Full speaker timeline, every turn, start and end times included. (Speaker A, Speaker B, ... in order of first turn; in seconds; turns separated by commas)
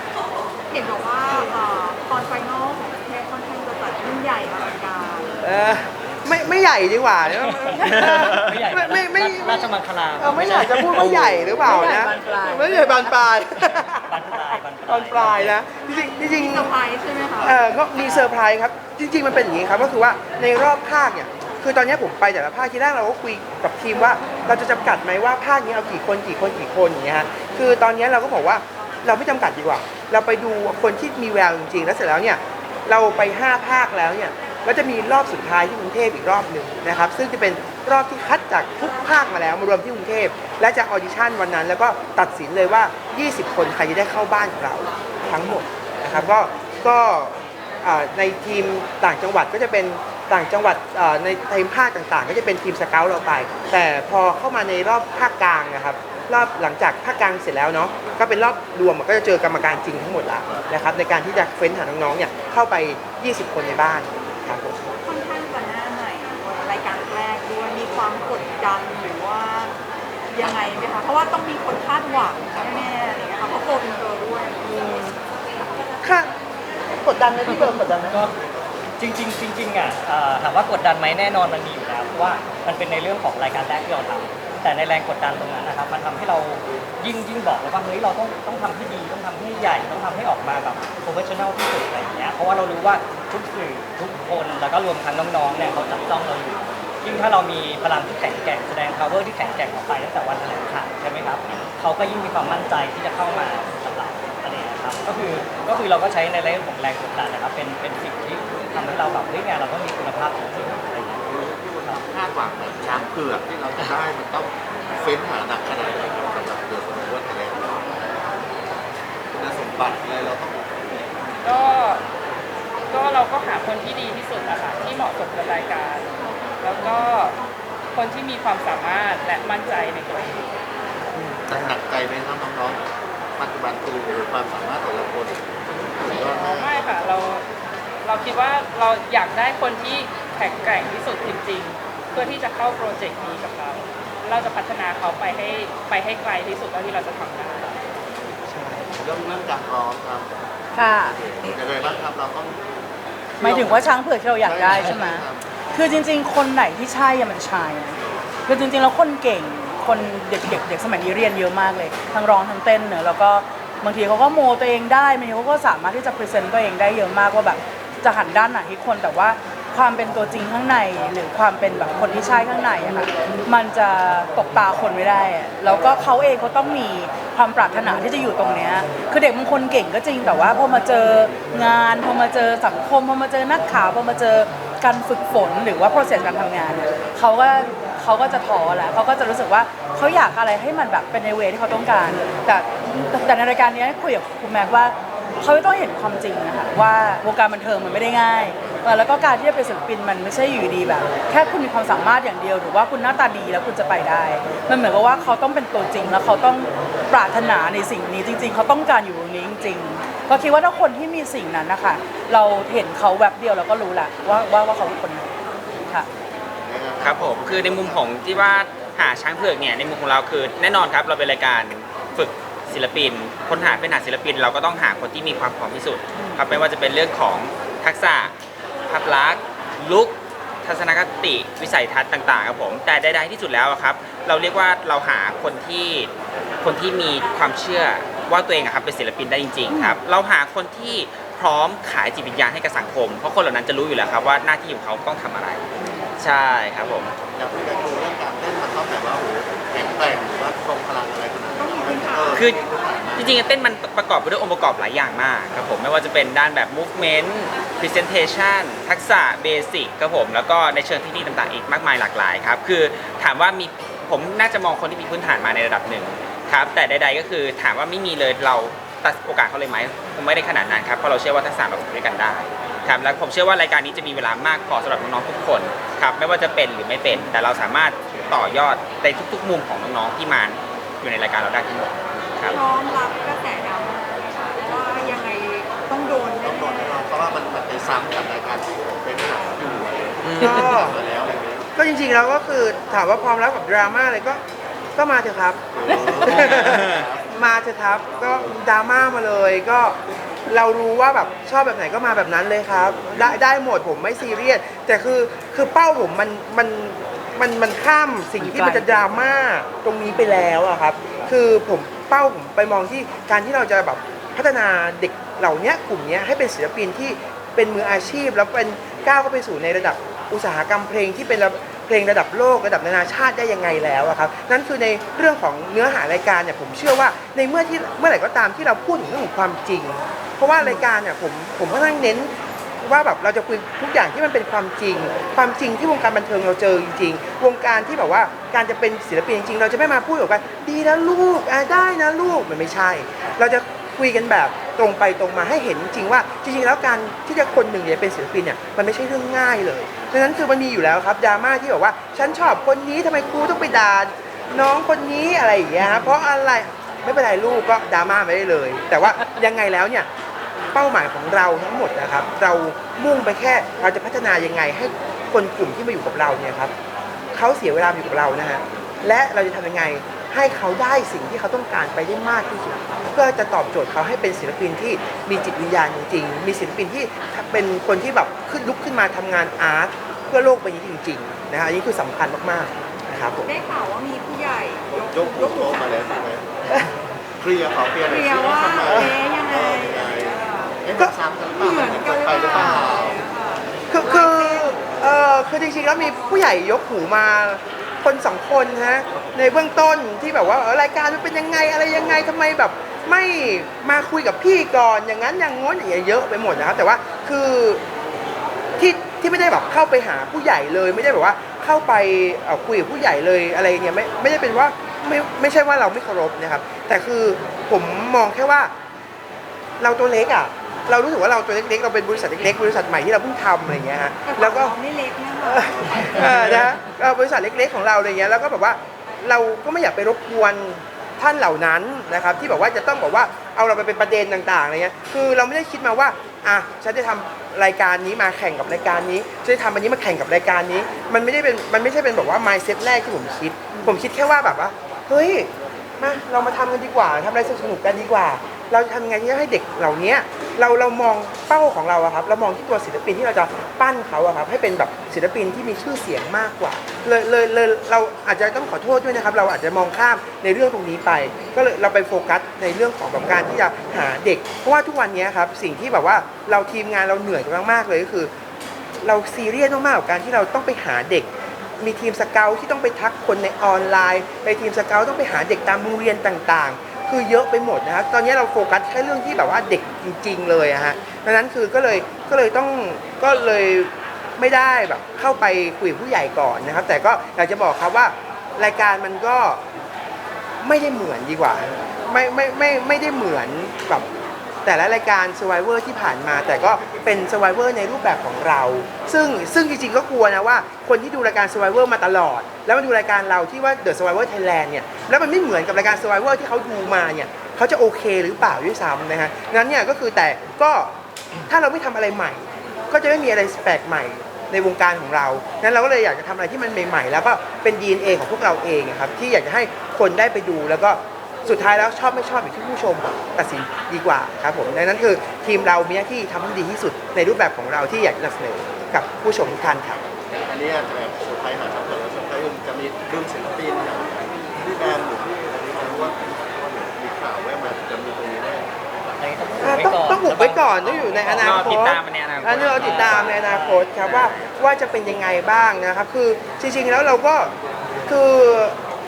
Speaker A: 0.7-5.4, Speaker B: 5.4-16.7, Speaker C: 7.2-12.0, Speaker D: 7.8-8.2, Speaker E: 11.6-13.1, Speaker C: 13.7-15.6, Speaker A: 15.9-17.9, Speaker B: 17.4-64.8, Speaker C: 18.0-18.3, Speaker A: 65.0-69.8, Speaker A: 70.3-74.6, Speaker B: 74.6-75.2, Speaker B: 76.0-76.3, Speaker B: 77.0-78.3, Speaker C: 77.5-78.3, Speaker C: 79.0-111.3, Speaker F: 111.2-118.3, Speaker F: 119.3-121.1, Speaker G: 121.4-122.0, Speaker G: 122.9-127.4, Speaker G: 127.9-130.5, Speaker B: 131.1-131.8, Speaker F: 131.5-132.8, Speaker F: 133.4-137.2, Speaker G: 136.2-137.4, Speaker G: 138.0-147.8, Speaker B: 148.5-149.0, Speaker F: 148.9-152.6, Speaker E: 150.7-151.2, Speaker F: 153.3-155.4, Speaker E: 153.4-215.3, Speaker F: 216.6-218.1, Speaker D: 217.0-228.3, Speaker D: 228.9-245.6, Speaker E: 239.7-240.0, Speaker D: 246.2-247.1, Speaker F: 247.3-253.6, Speaker A: 251.5-252.4, Speaker D: 252.3-252.6, Speaker D: 253.1-282.6, Speaker A: 282.5-287.1, Speaker F: 286.4-291.7, Speaker D: 290.2-290.7, Speaker B: 290.4-291.0, Speaker B: 291.8-294.4, Speaker B: 294.9-360.1, Speaker F: 295.7-297.3, Speaker D: 296.3-297.1, Speaker E: 308.4-309.1, Speaker E: 330.6-330.8, Speaker B: 360.7-366.7, Speaker B: 367.3-383.5, Speaker A: 383.4-386.3, Speaker F: 384.9-393.2, Speaker A: 388.0-390.8, Speaker B: 388.9-389.1, Speaker A: 391.4-394.9, Speaker B: 393.9-407.8, Speaker A: 396.0-396.4, Speaker B: 408.8-418.7, Speaker B: 419.8-424.8, Speaker A: 424.2-426.8, Speaker B: 425.4-468.3, Speaker B: 469.0-489.6, Speaker B: 490.6-494.1, Speaker B: 494.6-510.9, Speaker B: 511.5-530.0, Speaker F: 530.3-538.7, Speaker C: 539.2-541.8, Speaker B: 539.6-547.5, Speaker D: 541.4-543.2, Speaker C: 542.8-544.2, Speaker B: 548.0-548.8